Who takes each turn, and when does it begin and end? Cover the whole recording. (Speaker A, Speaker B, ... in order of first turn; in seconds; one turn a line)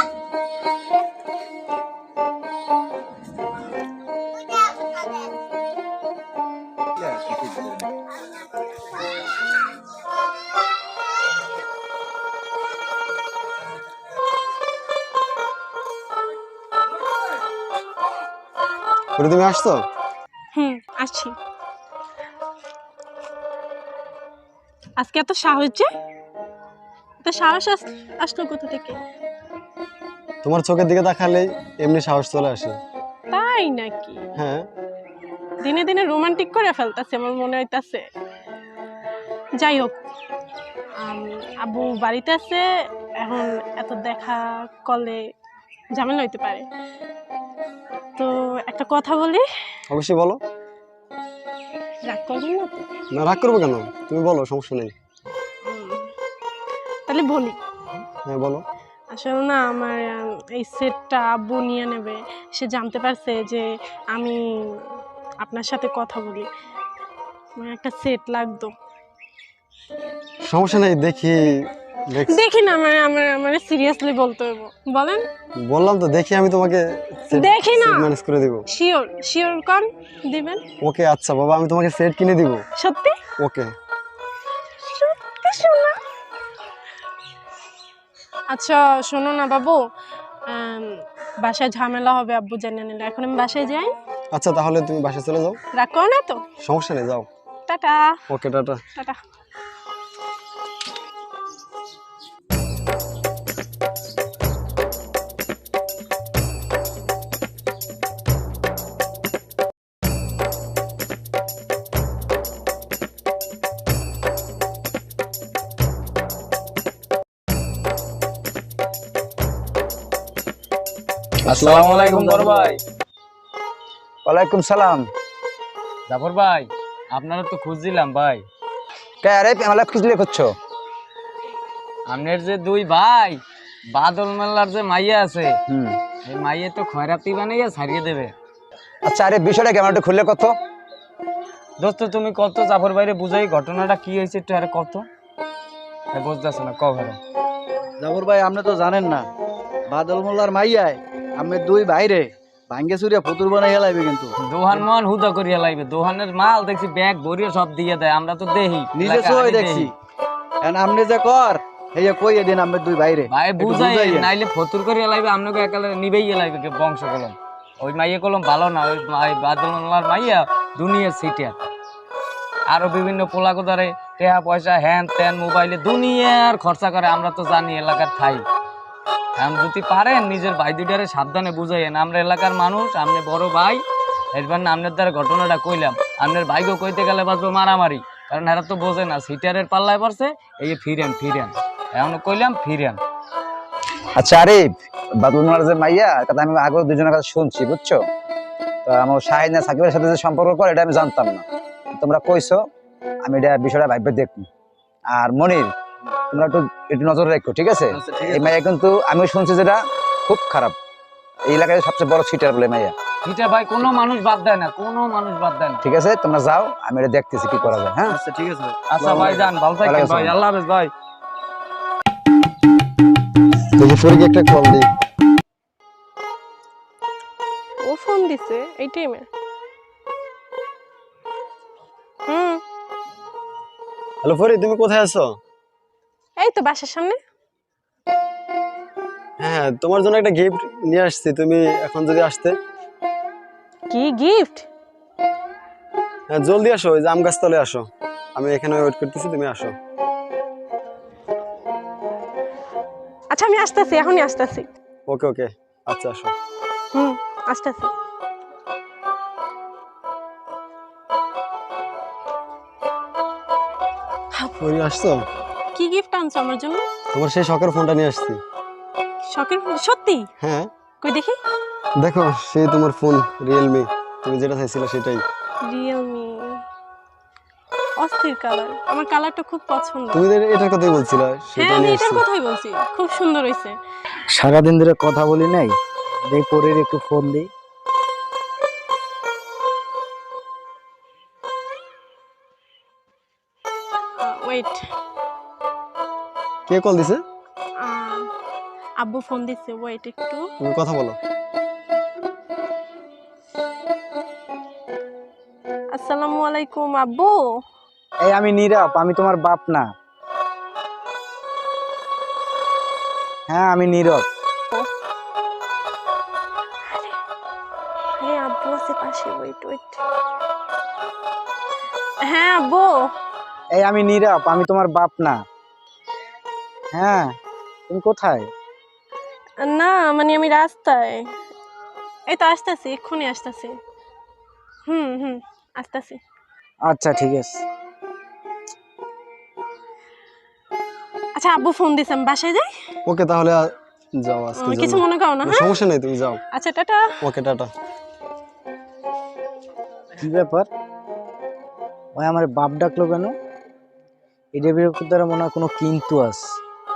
Speaker A: 19.2-19.8
Speaker B: 20.5-21.4
Speaker B: 25.0-25.9
Speaker B: 27.2-29.0
Speaker A: 30.4-32.8
Speaker B: 33.3-34.2
Speaker A: 34.4-34.7
Speaker B: 35.6-38.0
Speaker B: 39.6-40.0
Speaker B: 41.0-42.6
Speaker B: 43.2-45.2
Speaker B: 45.9-46.6
Speaker B: 48.2-49.4
Speaker A: 49.9-50.4
Speaker B: 52.0-52.9
Speaker A: 53.1-54.9
Speaker B: 55.6-56.1
Speaker B: 57.1-57.6
Speaker A: 58.2-58.6
Speaker B: 59.1-64.9
Speaker B: 65.4-66.5
Speaker B: 67.6-68.7
Speaker A: 70.4-72.4
Speaker B: 72.3-75.2
Speaker A: 75.6-78.6
Speaker B: 77.3-78.1
Speaker B: 78.7-80.6
Speaker A: 80.8-82.6
Speaker B: 82.8-83.2
Speaker A: 83.4-83.7
Speaker B: 84.8-86.0
Speaker B: 88.5-89.8
Speaker B: 90.5-93.9
Speaker A: 94.3-95.6
Speaker B: 95.7-96.4
Speaker A: 96.6-97.3
Speaker B: 97.7-98.2
Speaker A: 98.3-98.8
Speaker C: 121.4-122.8
Speaker D: 121.5-122.7
Speaker E: 124.2-125.0
Speaker C: 126.1-128.4
Speaker E: 129.2-130.5
Speaker C: 132.1-133.4
Speaker C: 133.9-135.6
Speaker E: 135.7-136.0
Speaker C: 136.2-138.3
Speaker E: 139.0-140.5
Speaker C: 141.8-145.1
Speaker C: 146.1-147.2
Speaker D: 148.0-149.3
Speaker D: 149.9-154.8
Speaker C: 154.4-159.9
Speaker D: 158.9-159.9
Speaker D: 160.6-164.3
Speaker C: 163.3-171.6
Speaker C: 172.7-178.4
Speaker C: 179.3-183.8
Speaker C: 184.3-193.0
Speaker E: 194.1-198.0
Speaker E: 198.8-201.4
Speaker E: 201.9-202.6
Speaker E: 203.2-204.5
Speaker E: 205.1-205.7
Speaker E: 206.3-210.8
Speaker D: 207.9-208.6
Speaker E: 211.5-212.9
Speaker C: 213.2-215.8
Speaker E: 215.8-218.2
Speaker D: 217.7-219.4
Speaker C: 218.9-220.9
Speaker A: 219.0-219.5
Speaker E: 219.8-220.3
Speaker A: 223.8-224.9
Speaker B: 227.8-229.3
Speaker B: 232.3-232.6
Speaker A: 234.2-235.3
Speaker B: 236.4-237.2
Speaker A: 239.4-242.6
Speaker B: 243.9-244.7
Speaker A: 246.3-249.7
Speaker B: 253.3-254.7
Speaker A: 255.1-256.3
Speaker B: 256.9-257.9
Speaker A: 264.6-265.2
Speaker B: 265.7-266.9
Speaker A: 267.1-268.4
Speaker B: 269.3-270.3
Speaker A: 270.4-270.7
Speaker B: 271.0-271.4
Speaker A: 272.0-275.2
Speaker B: 275.6-276.6
Speaker B: 278.0-280.2
Speaker A: 280.1-282.2
Speaker B: 281.6-283.8
Speaker F: 284.3-287.5
Speaker B: 294.2-294.8
Speaker A: 296.7-297.2
Speaker B: 297.8-298.3
Speaker B: 299.0-300.5
Speaker A: 300.6-301.2
Speaker B: 305.9-307.6
Speaker F: 308.2-309.9
Speaker F: 313.5-314.2
Speaker B: 316.9-317.1
Speaker B: 318.2-320.0
Speaker B: 322.2-323.1
Speaker F: 323.7-325.4
Speaker F: 326.9-327.4
Speaker F: 327.9-328.5
Speaker B: 329.6-331.3
Speaker B: 332.3-333.7
Speaker B: 334.9-336.2
Speaker F: 336.9-337.6
Speaker B: 341.4-342.7
Speaker A: 343.1-346.4
Speaker B: 344.6-345.8
Speaker B: 346.5-347.1
Speaker A: 347.2-347.7
Speaker F: 350.2-350.7
Speaker F: 352.1-353.3
Speaker F: 354.6-356.6